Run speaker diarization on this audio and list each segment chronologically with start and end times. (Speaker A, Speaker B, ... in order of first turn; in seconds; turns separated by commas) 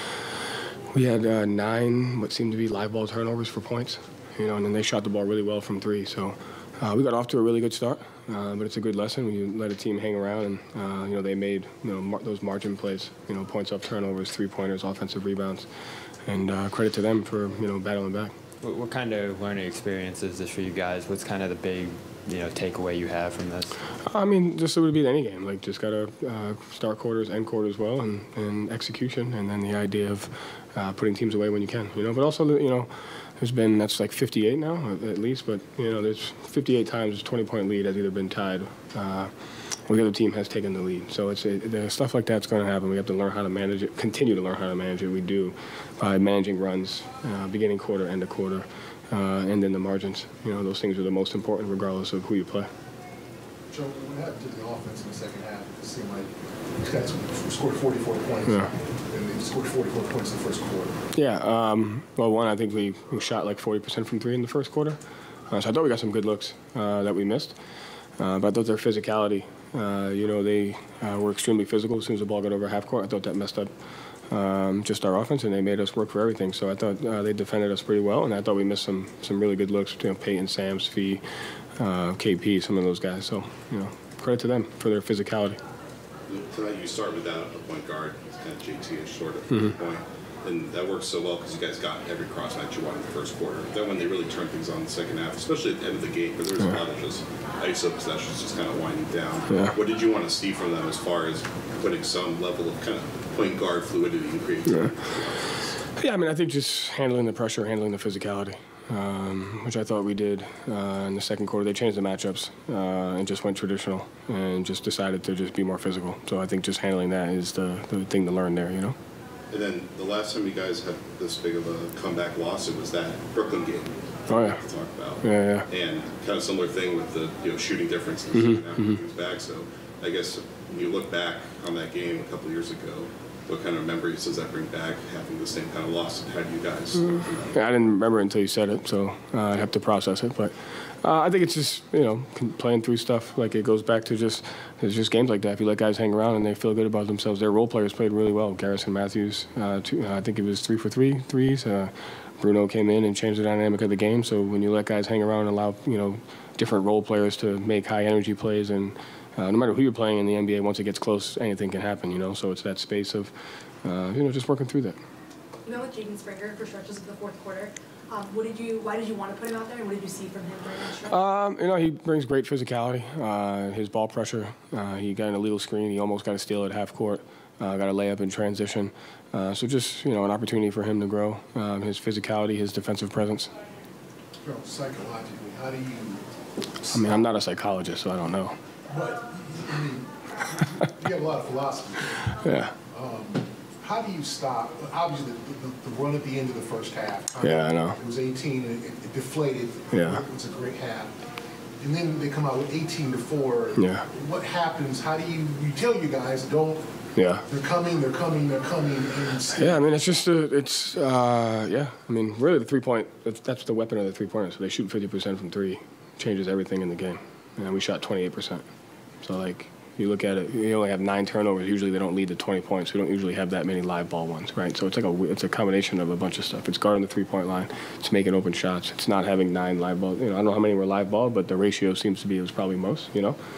Speaker A: 0.9-15.7, Speaker A: 16.3-18.3, Speaker B: 18.6-23.8, Speaker A: 24.0-39.3, Speaker A: 39.9-52.7, Speaker C: 53.7-56.3, Speaker C: 56.8-61.0, Speaker A: 61.1-65.0, Speaker A: 65.5-67.5, Speaker A: 68.2-73.7, Speaker A: 74.3-81.2, Speaker A: 81.8-85.6, Speaker D: 86.3-105.7, Speaker A: 99.5-99.8, Speaker A: 106.0-119.0, Speaker D: 119.5-137.6, Speaker A: 124.3-124.6, Speaker A: 125.2-125.7, Speaker A: 128.3-128.8, Speaker A: 137.5-163.3, Speaker A: 163.8-165.0, Speaker E: 165.7-171.2, Speaker A: 171.0-183.5, Speaker C: 184.4-186.2, Speaker A: 186.9-188.6, Speaker C: 188.9-192.2, Speaker A: 192.3-192.7, Speaker C: 192.9-201.1, Speaker A: 197.4-198.0, Speaker A: 199.9-200.2, Speaker C: 201.8-206.9, Speaker A: 203.8-204.1, Speaker A: 207.2-207.4, Speaker C: 207.5-209.9, Speaker A: 209.6-218.7, Speaker A: 219.2-233.4